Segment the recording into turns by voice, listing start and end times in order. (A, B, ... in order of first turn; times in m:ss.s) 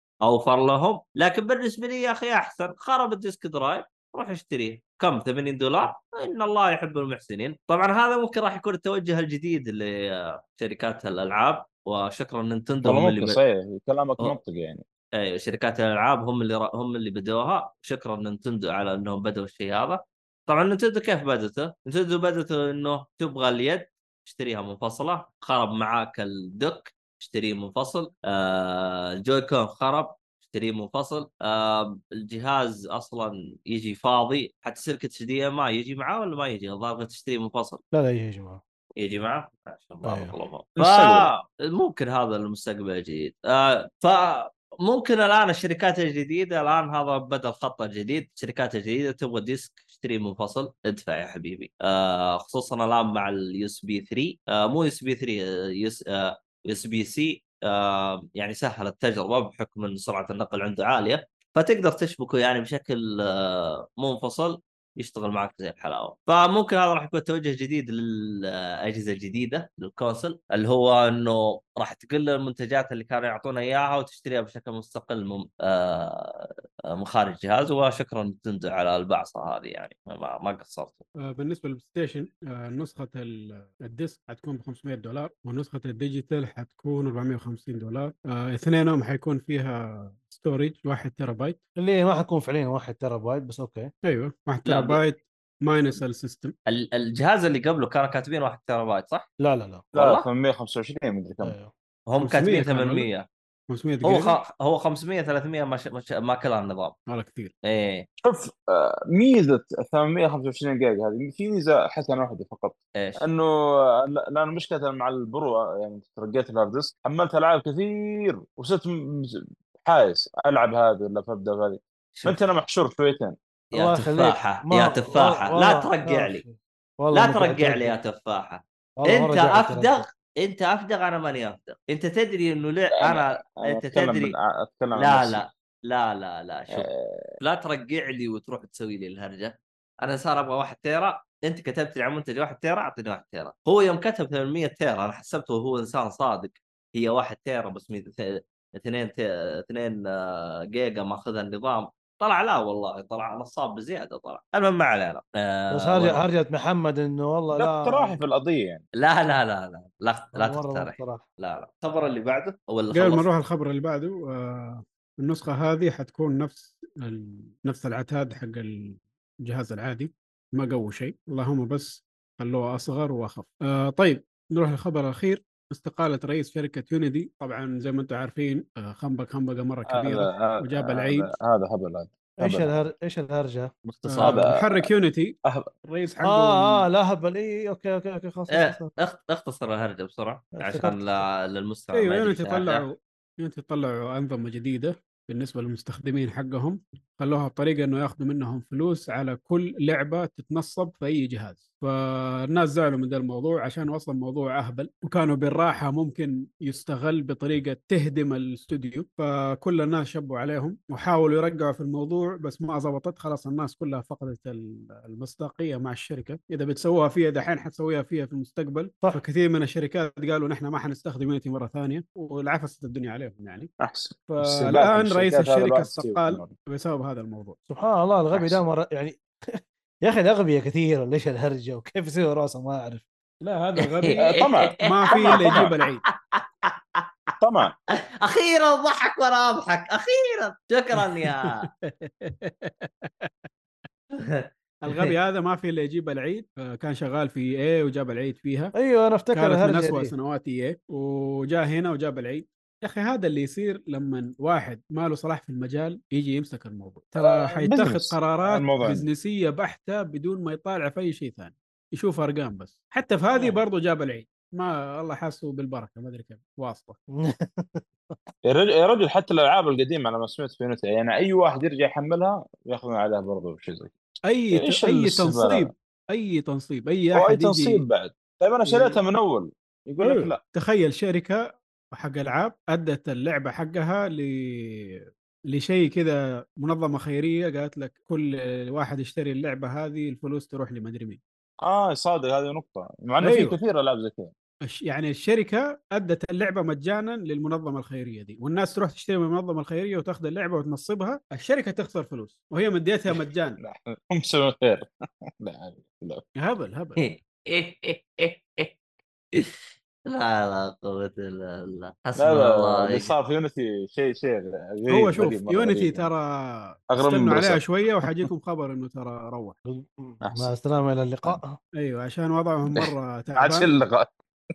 0:00.3-0:13.4 A
0:12.8-0:14.8 B
0:15.2-0:37.8 A
0:37.9-0:38.6 C
0:39.0-1:21.0 A
0:40.0-0:40.4 C
0:40.8-0:41.3 B
1:21.2-1:31.6 D
1:31.8-1:33.9 C
1:34.0-1:36.6 D
1:34.6-1:35.0 A
1:36.7-1:39.3 A
1:39.4-1:39.8 C
1:39.9-1:40.3 A
1:39.9-1:41.5 B
1:41.4-1:41.7 C
1:42.1-1:43.3 A
1:42.2-1:43.1 D
1:43.7-1:44.4 D
1:44.0-1:47.0 A
1:47.1-1:47.5 D
1:47.6-1:48.1 A
1:48.2-2:03.4 B
1:53.0-1:53.2 A
2:02.2-2:02.5 A
2:03.7-2:06.4 A
2:03.7-2:08.0 C
2:07.1-2:14.4 A
2:09.0-2:10.1 C
2:13.0-2:15.5 B
2:14.9-2:36.2 A
2:16.7-2:17.3 B
2:35.7-2:38.2 C
2:37.5-2:38.8 B
2:39.0-2:43.3 A
2:40.4-2:41.2 C
2:42.9-3:01.3 D
2:59.9-3:02.7 B
3:02.4-3:03.7 C
3:03.9-3:04.5 A
3:04.1-3:05.3 D
3:04.2-3:04.9 B
3:05.8-3:06.9 D
3:06.2-3:08.9 C
3:08.5-3:12.8 A
3:10.6-3:11.3 C
3:11.9-3:43.7 D
3:43.8-3:46.5 B
3:44.3-3:47.6 D
3:47.7-3:53.0 C
3:48.3-3:48.6 B
3:53.4-3:56.0 D
3:54.0-3:57.0 A
3:54.2-3:55.7 B
3:57.4-3:57.7 B
3:58.2-4:01.6 A
4:01.1-4:03.3 D
4:04.2-4:05.1 A
4:04.8-4:08.8 D
4:08.8-4:10.1 C
4:09.3-4:27.0 D
4:17.2-4:19.1 B
4:23.4-4:23.6 B
4:27.2-4:28.2 C
4:28.4-4:33.9 B
4:34.3-4:37.8 D
4:34.5-4:35.7 B
4:37.1-4:40.4 B
4:38.6-4:39.0 D
4:40.0-4:51.2 D
4:51.6-4:54.3 B
4:53.2-4:53.6 D
4:54.6-5:03.6 D
5:03.6-5:06.2 B
5:06.4-5:07.1 D
5:07.0-5:08.7 A
5:10.1-5:13.1 A
5:12.2-5:16.1 B
5:14.9-5:19.6 D
5:16.9-5:18.3 B
5:19.7-5:21.6 C
5:20.2-5:20.5 B
5:21.8-5:23.7 D
5:22.7-5:24.1 B